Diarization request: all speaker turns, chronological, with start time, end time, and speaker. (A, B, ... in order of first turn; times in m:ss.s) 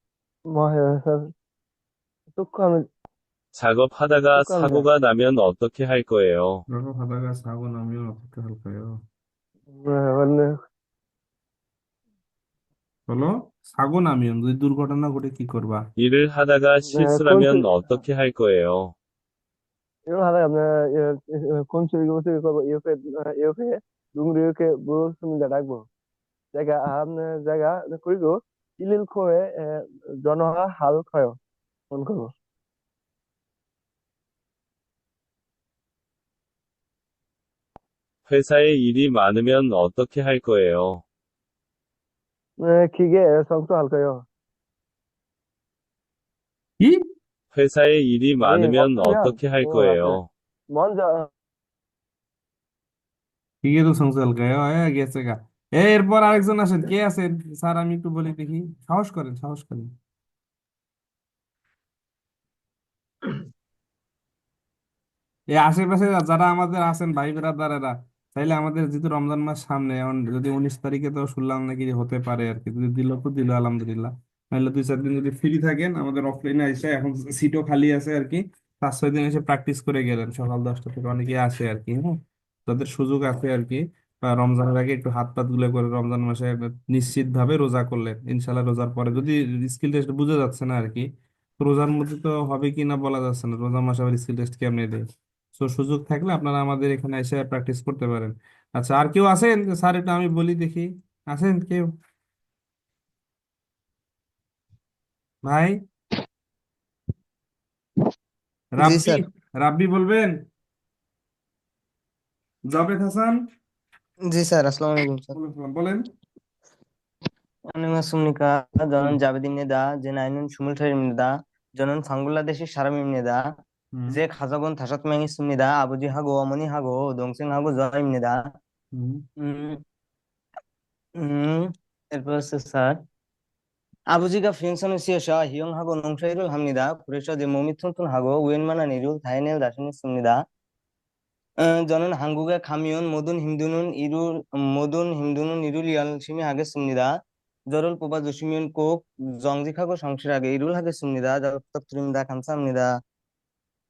0:00.5-0:01.2 A
0:02.4-0:02.8 A
0:03.6-0:06.6 B
0:04.4-0:04.8 A
0:06.7-0:09.0 C
0:09.8-0:10.5 A
0:13.1-0:15.8 C
0:16.0-0:18.9 B
0:16.9-0:17.7 A
0:20.1-0:25.8 A
0:26.5-0:31.4 A
0:31.9-0:32.3 A
0:38.3-0:41.0 B
0:42.6-0:44.2 A
0:47.5-0:50.3 B
0:48.4-0:50.2 A
0:50.7-0:51.3 A
0:53.6-0:59.9 C
1:05.5-1:31.1 C
1:31.6-1:35.0 C
1:35.6-1:41.9 C
1:45.4-1:45.8 C
1:48.8-1:50.3 C
1:48.8-1:49.2 D
1:52.7-1:53.4 C
1:54.3-1:55.4 D
1:55.4-1:56.0 C
1:57.7-2:03.4 D
2:03.9-2:04.2 C
2:04.1-2:08.4 D
2:08.9-2:09.2 C
2:09.4-2:09.8 D
2:11.2-2:13.0 D
2:14.1-2:20.4 D
2:21.7-2:27.1 D
2:27.7-2:28.9 D
2:29.4-2:32.9 D